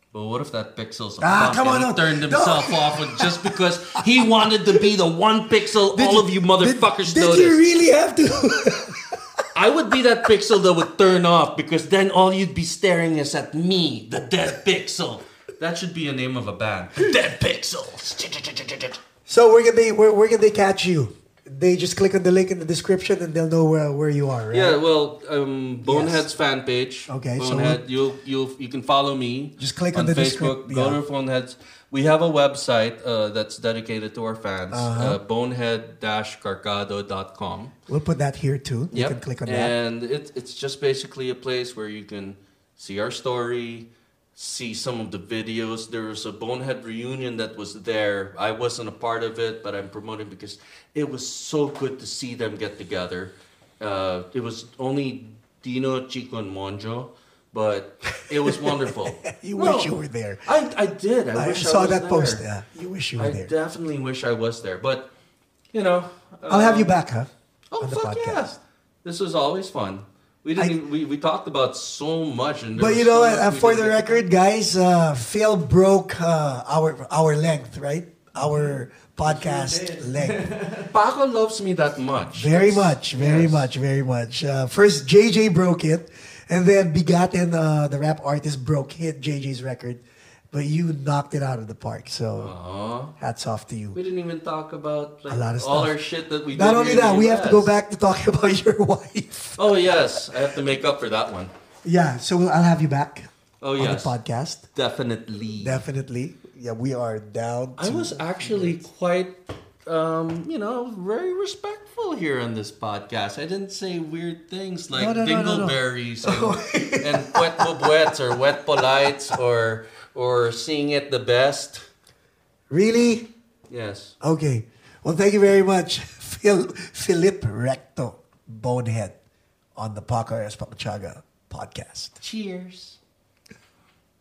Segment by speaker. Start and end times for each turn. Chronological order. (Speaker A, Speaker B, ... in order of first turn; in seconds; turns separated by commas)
Speaker A: 0.1-7.6, Speaker B: 1.2-3.6, Speaker B: 4.2-4.8, Speaker B: 5.9-9.4, Speaker A: 9.5-19.0, Speaker B: 19.3-24.8, Speaker A: 24.5-37.7, Speaker B: 25.8-26.2, Speaker B: 27.1-27.8, Speaker B: 29.6-31.0, Speaker B: 34.7-35.2, Speaker B: 37.9-39.7, Speaker A: 38.9-59.9, Speaker B: 58.1-60.5, Speaker A: 60.4-62.4, Speaker B: 61.3-63.5, Speaker A: 63.2-65.1, Speaker A: 65.7-67.0, Speaker B: 66.5-67.3, Speaker A: 67.7-74.3, Speaker B: 67.8-68.6, Speaker B: 72.7-80.6, Speaker A: 78.4-83.7, Speaker B: 82.3-92.5, Speaker A: 92.4-93.1, Speaker B: 93.2-94.0, Speaker A: 93.9-97.7, Speaker B: 95.3-95.9, Speaker B: 96.5-100.0, Speaker A: 99.6-101.5, Speaker B: 101.8-104.7, Speaker A: 103.6-104.2, Speaker A: 104.7-105.8, Speaker B: 105.6-108.8, Speaker A: 107.8-121.9, Speaker B: 114.9-118.3, Speaker B: 122.7-123.2, Speaker A: 123.7-124.1, Speaker B: 124.2-129.1, Speaker B: 129.8-132.2, Speaker A: 132.2-133.0